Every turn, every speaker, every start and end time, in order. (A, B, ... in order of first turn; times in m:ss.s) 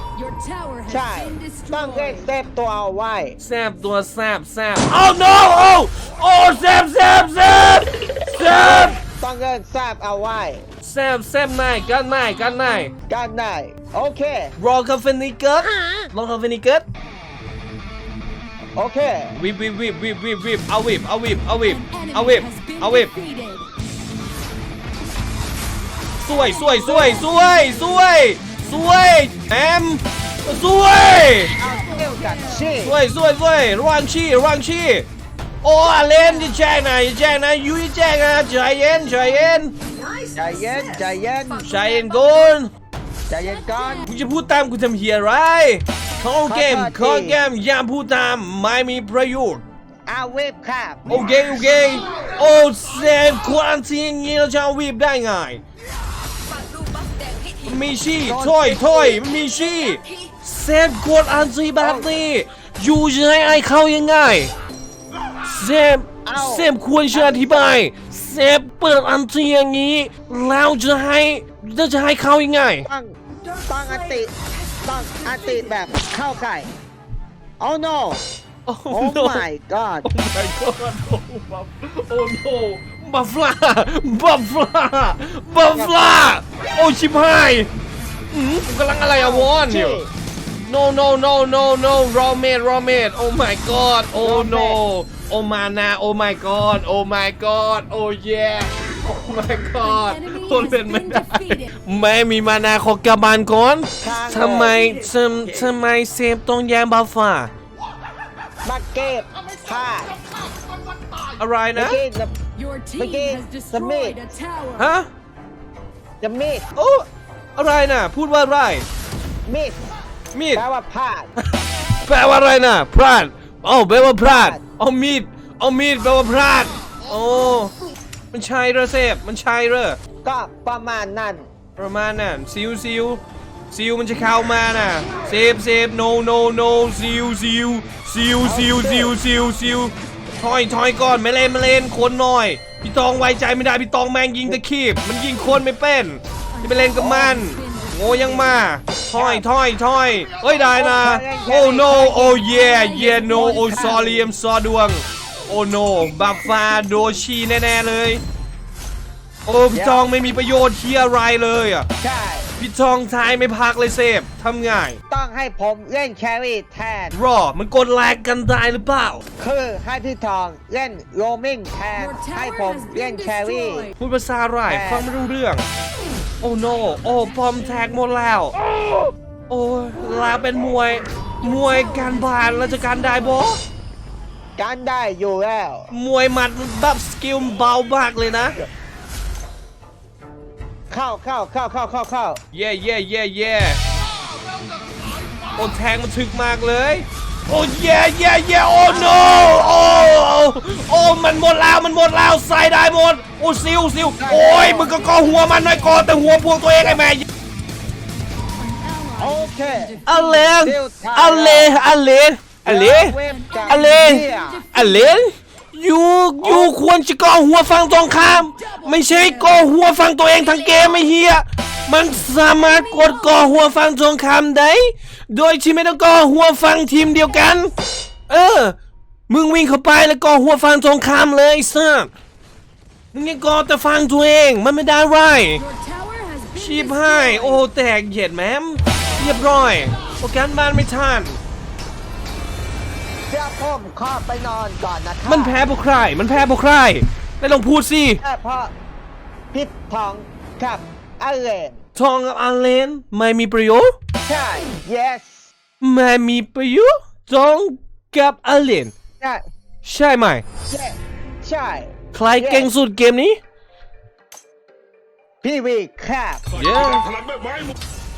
0:00.2-0:02.2 A
0:00.9-0:03.4 B
0:03.4-0:09.0 C
0:08.5-0:10.7 B
0:10.8-0:12.9 C
0:13.1-0:14.6 B
0:14.6-0:16.9 C
0:18.8-0:19.4 B
0:19.4-0:23.1 C
0:21.7-0:23.7 A
0:26.2-0:31.5 C
0:26.4-0:27.9 A
0:31.5-0:32.7 A
0:31.6-0:33.0 B
0:32.8-0:35.1 C
0:35.6-0:39.7 C
0:40.2-0:42.5 A
0:40.4-0:41.6 B
0:41.6-0:42.7 C
0:43.3-0:44.1 B
0:44.1-0:49.6 C
0:46.5-0:47.4 B
0:50.1-0:51.3 B
0:51.1-0:55.6 C
0:57.6-1:04.5 C
0:58.2-0:59.0 B
1:01.8-1:02.1 B
1:05.4-1:12.9 C
1:06.2-1:07.8 B
1:12.9-1:14.3 B
1:13.5-1:15.7 A
1:14.8-1:16.7 B
1:17.6-1:18.2 B
1:18.6-1:19.4 C
1:18.9-1:20.1 B
1:20.0-1:27.7 C
1:25.7-1:26.1 B
1:28.3-1:30.0 C
1:29.1-1:30.1 B
1:30.7-1:47.5 C
1:34.2-1:34.8 B
1:39.8-1:41.7 A
1:44.0-1:44.9 B
1:48.6-1:50.2 B
1:51.4-1:52.0 C
1:51.8-1:52.3 B
1:52.6-1:54.9 A
1:53.0-1:54.2 B
1:54.8-1:55.1 C
1:56.2-1:56.7 B
1:56.8-1:57.0 C
1:57.6-1:58.8 C
1:59.5-1:59.8 B
2:00.3-2:00.6 C
2:00.5-2:01.3 B
2:02.0-2:07.7 C
2:04.2-2:04.6 B
2:08.3-2:10.0 C
2:10.2-2:11.5 B
2:11.8-2:13.2 C
2:13.7-2:38.2 C
2:18.4-2:19.1 B
2:26.6-2:28.6 A
2:29.1-2:29.4 B
2:30.6-2:32.4 B
2:32.4-2:34.0 A
2:33.2-2:34.2 B
2:39.5-2:41.9 C
2:39.7-2:40.1 B
2:42.0-2:42.5 B
2:42.6-2:45.0 C
2:45.1-2:47.2 B
2:47.1-2:49.2 C
2:49.4-2:53.9 B
2:52.0-2:53.9 A
2:54.0-2:55.6 C
2:54.7-2:55.1 B
2:56.4-2:58.5 C
2:59.5-3:03.6 C
3:01.5-3:03.2 A
3:04.6-3:05.9 B
3:05.9-3:08.5 C
3:10.9-3:12.4 B
3:12.5-3:13.8 C
3:15.6-3:27.2 C
3:18.9-3:20.2 B
3:24.2-3:25.0 B
3:25.1-3:25.5 A
3:28.6-3:30.6 A
3:29.2-3:30.0 B
3:30.1-3:33.1 C
3:30.6-3:31.9 B
3:32.6-3:34.6 B
3:33.2-3:35.2 A
3:33.7-3:47.7 C
3:36.4-3:36.7 B
3:38.1-3:39.6 A
3:40.6-3:40.9 A
3:42.5-3:43.7 A
3:48.3-3:48.8 C
3:49.3-3:52.1 C
3:53.1-3:55.6 C
3:55.6-3:57.6 A
3:56.6-4:01.4 C
4:03.3-4:05.6 B
4:05.3-4:08.2 C
4:08.2-4:08.7 B
4:09.5-4:11.8 B
4:12.0-4:13.9 C
4:14.2-4:15.5 B
4:15.8-4:18.9 C
4:19.8-4:20.4 C
4:20.7-4:22.7 B
4:22.1-4:23.4 C
4:25.4-4:26.5 B
4:26.5-4:27.1 C